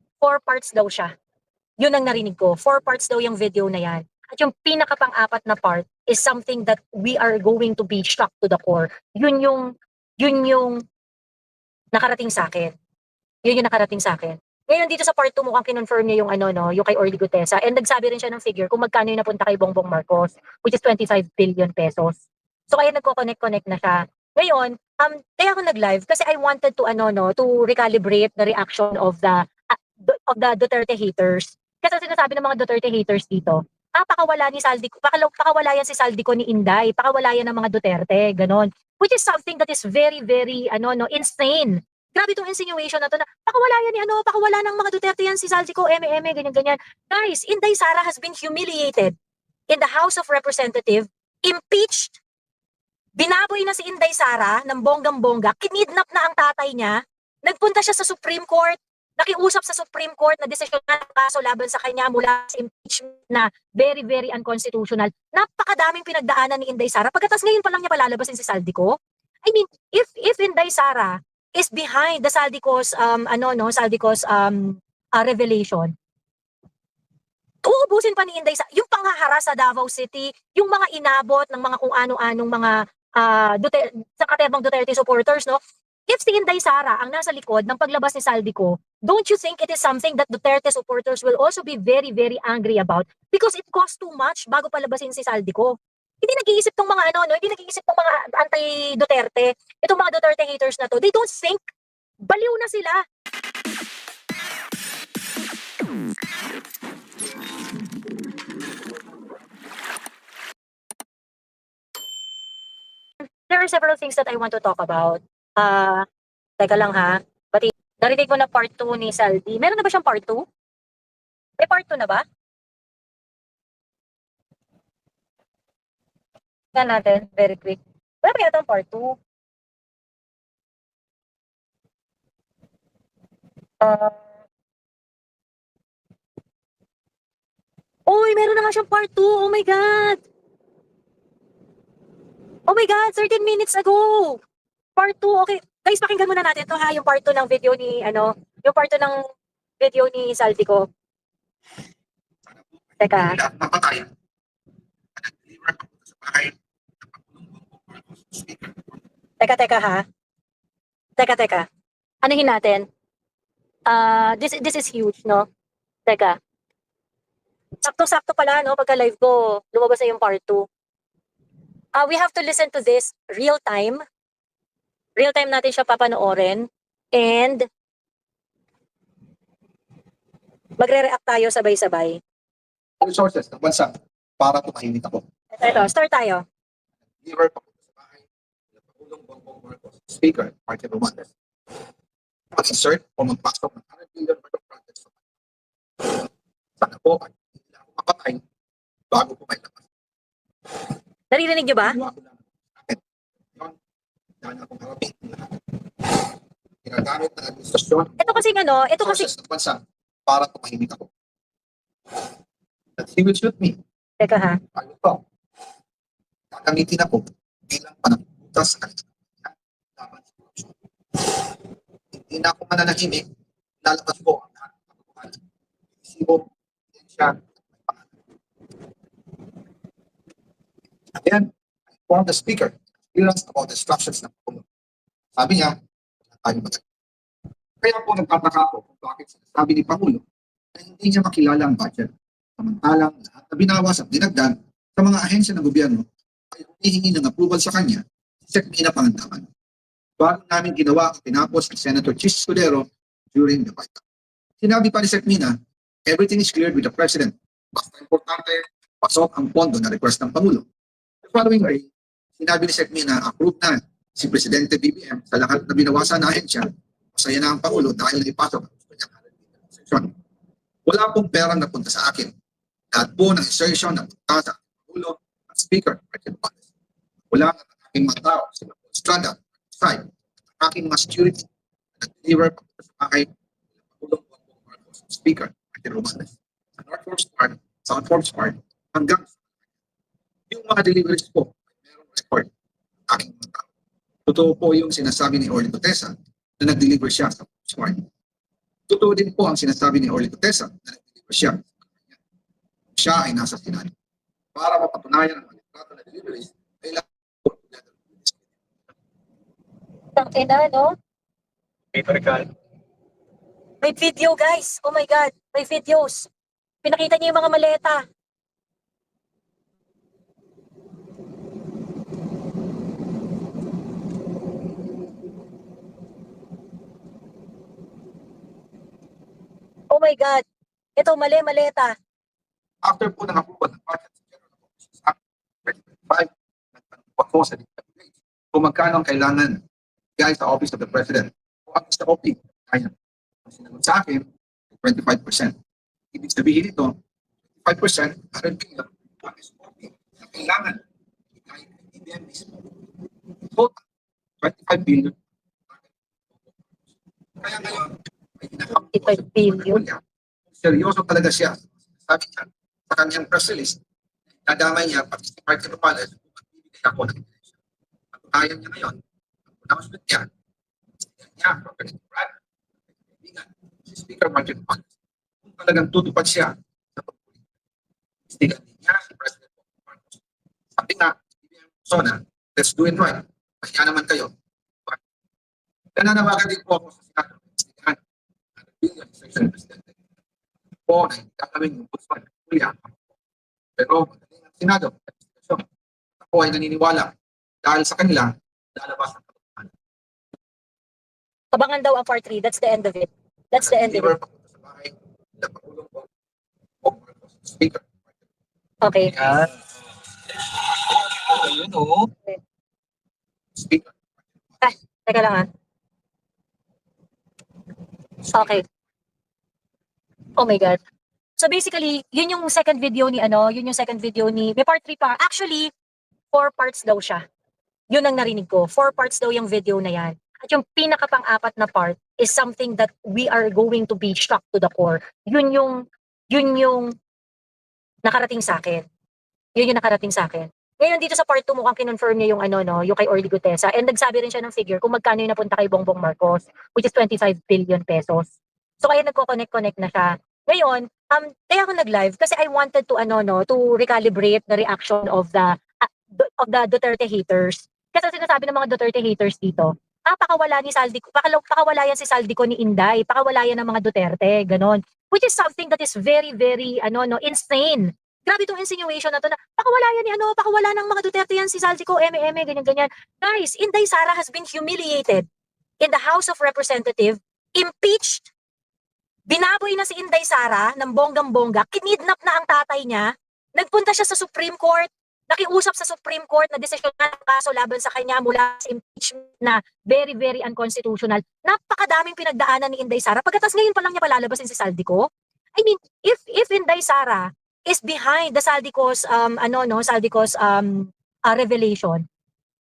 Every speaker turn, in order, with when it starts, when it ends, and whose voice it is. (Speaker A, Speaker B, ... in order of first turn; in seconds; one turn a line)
Speaker A: 0.2-1.1
Speaker A: 1.8-9.7
Speaker A: 10.2-10.8
Speaker A: 11.9-12.7
Speaker A: 13.4-22.2
Speaker A: 22.7-49.1
Speaker A: 49.7-52.2
Speaker A: 53.2-75.9
Speaker A: 77.6-101.6
Speaker A: 102.2-103.0
Speaker A: 113.5-116.0
Speaker A: 116.6-120.4
Speaker A: 121.6-122.2
Speaker A: 126.7-129.2
Speaker A: 133.8-134.2
Speaker A: 138.1-140.2
Speaker A: 142.7-144.4
Speaker A: 145.0-149.3
Speaker A: 149.8-150.9
Speaker B: 152.5-154.1
Speaker A: 153.0-153.4
Speaker B: 155.2-158.9
Speaker A: 159.4-160.0
Speaker A: 161.2-161.7
Speaker A: 162.2-162.9
Speaker A: 163.9-165.5
Speaker A: 166.1-166.4
Speaker A: 167.8-170.7
Speaker A: 171.9-174.0
Speaker A: 175.2-177.7
Speaker A: 180.8-182.2
Speaker B: 183.0-185.2
Speaker A: 185.5-186.4
Speaker B: 187.2-188.2
Speaker B: 188.8-191.3
Speaker B: 192.5-195.2
Speaker B: 196.0-198.4
Speaker B: 199.1-199.9
Speaker A: 201.3-202.0
Speaker B: 201.8-203.0
Speaker B: 204.4-206.3
Speaker B: 206.8-208.4
Speaker A: 208.2-209.3
Speaker B: 209.0-211.1
Speaker B: 213.0-213.8
Speaker A: 214.2-214.6
Speaker B: 214.7-215.2
Speaker B: 216.5-221.5
Speaker B: 222.1-223.3
Speaker B: 223.8-225.4
Speaker B: 226.0-228.2
Speaker B: 231.1-231.5
Speaker B: 232.1-234.6
Speaker B: 235.3-235.8
Speaker B: 236.3-236.8
Speaker B: 237.8-240.2
Speaker B: 240.7-249.5
Speaker B: 250.2-254.0
Speaker B: 254.6-255.5
Speaker B: 256.1-260.6
Speaker B: 261.2-270.1
Speaker B: 270.9-272.3
Speaker B: 272.9-276.6
Speaker B: 277.3-281.5
Speaker B: 282.0-283.3
Speaker B: 283.9-289.3
Speaker B: 290.5-292.5
Speaker B: 293.1-293.7
Speaker B: 294.3-298.0
Speaker B: 298.9-302.2
Speaker B: 302.9-303.9
Speaker B: 304.5-308.5
Speaker A: 310.1-310.9
Speaker C: 311.9-312.5
Speaker A: 313.8-316.3
Speaker A: 316.8-318.0
Speaker A: 329.9-330.4
Speaker A: 331.0-331.9
Speaker B: 332.8-339.6
Speaker B: 340.2-342.9
Speaker B: 343.4-344.3
Speaker B: 344.8-345.5
Speaker B: 346.1-347.0
Speaker B: 347.6-350.8
Speaker B: 351.4-352.7
Speaker B: 353.5-353.8
Speaker B: 354.4-355.2
Speaker B: 355.7-356.8
Speaker B: 357.4-363.8
Speaker A: 358.9-359.8
Speaker B: 364.4-367.4
Speaker B: 368.1-369.0
Speaker B: 369.5-370.3
Speaker B: 371.2-372.4
Speaker B: 373.2-374.9
Speaker B: 375.4-377.4
Speaker B: 378.3-380.2
Speaker B: 380.7-384.3
Speaker B: 385.9-388.0
Speaker B: 388.6-389.9
Speaker B: 390.9-392.9
Speaker B: 393.8-395.6
Speaker B: 396.2-399.7
Speaker A: 401.5-404.1
Speaker B: 403.6-406.1
Speaker B: 406.8-408.0
Speaker A: 408.8-409.1
Speaker C: 409.1-409.6
Speaker C: 410.7-412.1
Speaker B: 413.5-414.7
Speaker A: 414.6-415.5
Speaker B: 418.3-418.6
Speaker A: 418.3-418.6
Speaker A: 420.4-420.8
Speaker A: 421.4-425.7
Speaker A: 426.3-427.2
Speaker A: 427.9-436.9
Speaker A: 438.0-438.8
Speaker A: 439.6-448.3
Speaker A: 448.8-475.2
Speaker A: 475.8-478.3
Speaker A: 479.3-502.0